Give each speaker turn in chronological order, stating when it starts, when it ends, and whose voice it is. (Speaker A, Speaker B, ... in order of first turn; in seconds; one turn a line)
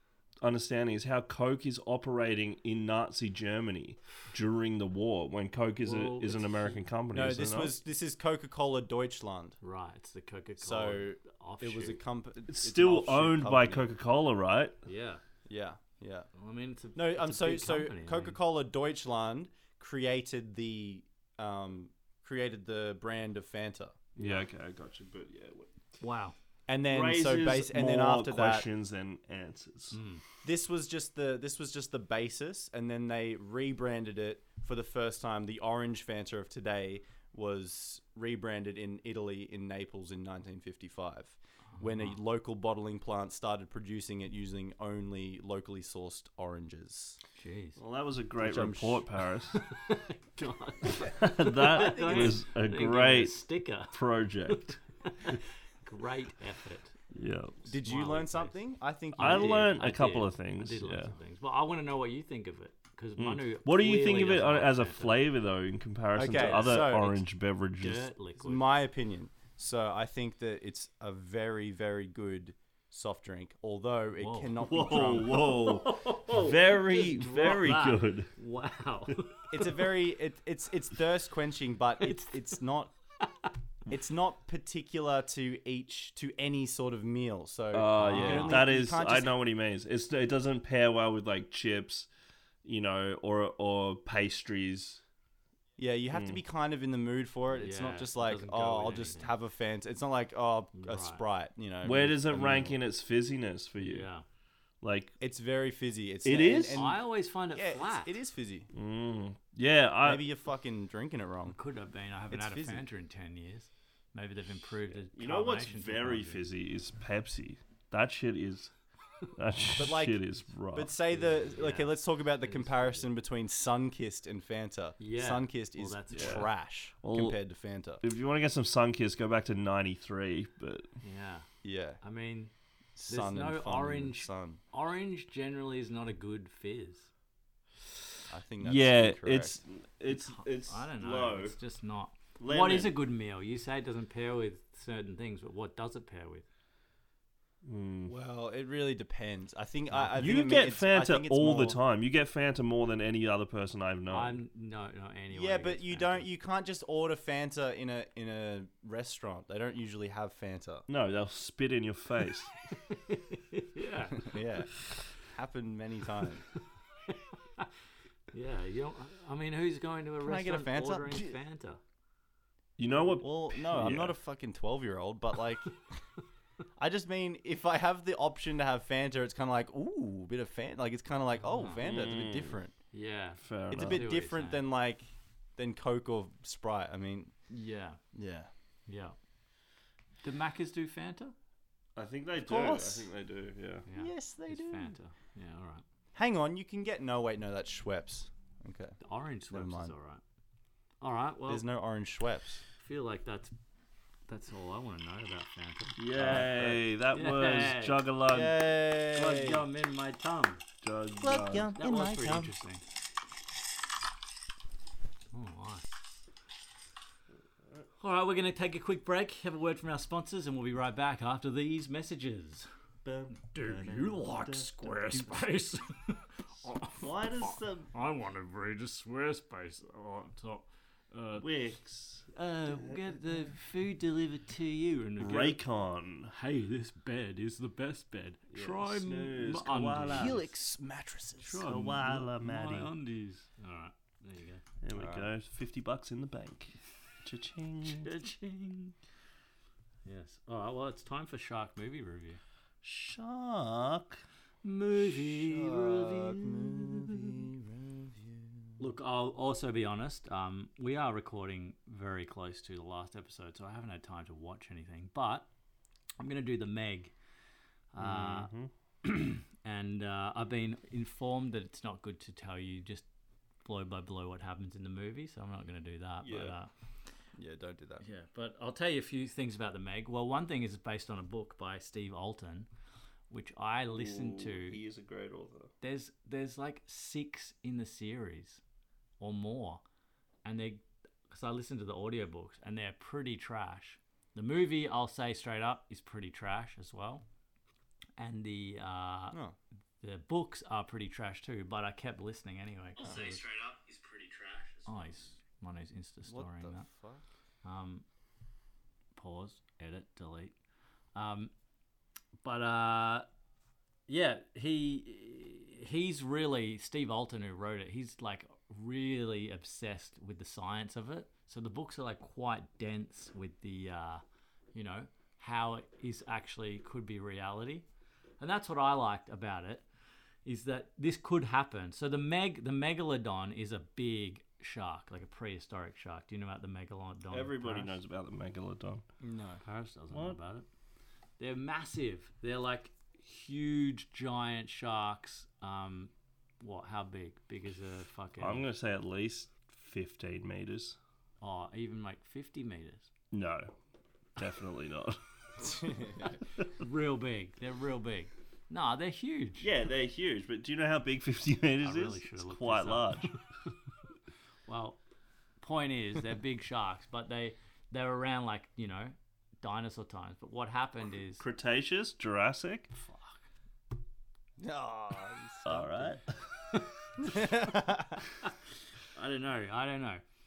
Speaker A: 0.4-7.7
Speaker B: 5.8-6.8
Speaker C: 7.1-9.6
Speaker B: 9.6-12.0
Speaker C: 10.6-13.9
Speaker A: 12.5-14.8
Speaker B: 14.8-15.2
Speaker C: 15.5-16.3
Speaker B: 16.3-18.4
Speaker C: 16.9-24.0
Speaker B: 24.2-24.4
Speaker A: 24.2-25.7
Speaker B: 26.0-26.3
Speaker C: 26.7-28.7
Speaker A: 26.9-30.0
Speaker B: 29.9-30.2
Speaker C: 30.4-47.2
Speaker B: 41.8-42.1
Speaker B: 47.3-47.8
Speaker A: 47.8-49.6
Speaker C: 48.4-49.0
Speaker B: 49.5-53.9
Speaker A: 51.0-54.8
Speaker C: 51.7-52.4
Speaker B: 54.5-56.9
Speaker A: 57.1-57.6
Speaker C: 57.6-59.7
Speaker B: 57.8-58.6
Speaker B: 59.1-65.2
Speaker A: 59.2-61.1
Speaker A: 63.2-68.1
Speaker C: 66.2-67.2
Speaker B: 67.8-68.7
Speaker C: 68.4-75.5
Speaker B: 74.2-74.5
Speaker A: 74.6-78.3
Speaker B: 75.2-79.7
Speaker C: 79.5-82.9
Speaker B: 82.0-82.3
Speaker C: 83.9-89.3
Speaker A: 87.7-92.1
Speaker B: 88.0-88.7
Speaker A: 92.6-95.0
Speaker C: 95.8-102.8
Speaker A: 96.1-96.4
Speaker B: 97.5-99.3
Speaker B: 100.7-101.2
Speaker A: 101.8-104.1
Speaker B: 103.8-104.2
Speaker A: 104.8-105.1
Speaker C: 105.2-108.7
Speaker A: 106.2-106.9
Speaker B: 106.7-108.1
Speaker A: 108.7-110.2
Speaker C: 110.0-111.6
Speaker B: 111.5-116.4
Speaker C: 112.3-112.8
Speaker A: 115.1-118.7
Speaker A: 119.3-120.9
Speaker C: 119.8-120.2
Speaker C: 120.7-128.0
Speaker B: 121.1-123.1
Speaker B: 125.0-126.5
Speaker A: 126.1-126.5
Speaker A: 127.0-127.4
Speaker A: 128.0-130.9
Speaker B: 131.0-131.5
Speaker C: 131.6-132.0
Speaker B: 132.0-132.5
Speaker C: 132.9-134.6
Speaker B: 133.1-137.1
Speaker C: 138.3-139.6
Speaker A: 138.6-141.6
Speaker B: 140.1-146.5
Speaker A: 142.4-142.9
Speaker A: 147.6-148.1
Speaker C: 148.1-151.8
Speaker A: 150.1-154.4
Speaker B: 154.1-156.3
Speaker C: 155.3-160.8
Speaker A: 160.9-162.5
Speaker B: 162.8-164.4
Speaker C: 164.2-166.4
Speaker B: 167.1-167.7
Speaker B: 168.3-171.8
Speaker C: 170.2-171.4
Speaker A: 172.8-174.2
Speaker C: 173.2-175.8
Speaker C: 176.8-182.7
Speaker B: 181.4-181.8
Speaker A: 181.8-182.5
Speaker B: 182.9-184.6
Speaker A: 183.4-184.0
Speaker C: 183.7-185.1
Speaker C: 185.6-187.3
Speaker B: 187.5-188.0
Speaker C: 188.1-188.5
Speaker B: 188.9-189.2
Speaker B: 190.2-191.3
Speaker A: 191.9-193.8
Speaker C: 192.4-193.1
Speaker B: 193.8-195.8
Speaker C: 193.9-194.9
Speaker C: 196.1-198.9
Speaker B: 199.0-200.2
Speaker C: 199.5-199.9
Speaker B: 201.0-201.6
Speaker C: 201.5-202.6
Speaker B: 202.8-203.5
Speaker B: 204.3-206.5
Speaker A: 206.0-208.6
Speaker C: 206.2-206.8
Speaker B: 207.1-208.0
Speaker C: 208.3-209.6
Speaker B: 209.1-210.6
Speaker A: 210.8-211.7
Speaker C: 211.2-212.5
Speaker B: 211.8-212.8
Speaker B: 215.3-215.9
Speaker B: 218.0-222.7
Speaker A: 223.0-225.3
Speaker B: 223.3-231.4
Speaker A: 226.9-227.9
Speaker A: 231.4-233.2
Speaker B: 232.3-235.6
Speaker A: 235.2-236.3
Speaker B: 236.3-240.4
Speaker A: 238.5-240.4
Speaker C: 240.1-241.7
Speaker B: 241.4-244.6
Speaker A: 241.6-242.9
Speaker A: 244.8-248.1
Speaker C: 244.9-245.3
Speaker B: 247.9-248.9
Speaker B: 250.0-252.4
Speaker A: 252.8-254.2
Speaker B: 254.6-257.1
Speaker C: 255.3-258.7
Speaker B: 258.8-265.5
Speaker B: 266.2-267.1
Speaker B: 267.9-268.5
Speaker A: 268.0-268.7
Speaker B: 269.0-273.0
Speaker B: 273.6-276.7
Speaker A: 276.2-276.5
Speaker C: 277.4-278.0
Speaker B: 278.0-282.7
Speaker B: 283.3-284.8
Speaker A: 283.9-285.7
Speaker B: 285.8-288.6
Speaker B: 289.2-289.8
Speaker B: 290.4-297.2
Speaker B: 298.2-299.4
Speaker B: 300.0-303.4
Speaker C: 303.0-304.8
Speaker B: 304.8-306.9
Speaker C: 306.2-307.2
Speaker B: 307.6-308.0
Speaker B: 309.1-310.5
Speaker B: 311.1-311.5
Speaker B: 312.4-313.2
Speaker B: 314.1-324.2
Speaker B: 324.7-327.9
Speaker B: 328.4-329.9
Speaker B: 330.4-338.0
Speaker A: 337.3-339.0
Speaker C: 339.2-339.6
Speaker B: 339.6-340.7
Speaker A: 340.1-340.4
Speaker B: 341.4-348.6
Speaker A: 348.4-351.0
Speaker B: 351.4-353.1
Speaker A: 353.3-353.7
Speaker A: 354.4-355.2
Speaker C: 355.6-356.3
Speaker B: 356.8-359.7
Speaker A: 359.6-363.4
Speaker B: 361.8-363.4
Speaker B: 364.7-365.0
Speaker B: 365.6-371.4
Speaker A: 371.4-372.9
Speaker B: 372.9-373.4
Speaker C: 374.6-376.2
Speaker A: 375.6-376.4
Speaker C: 377.2-378.2
Speaker B: 379.1-380.2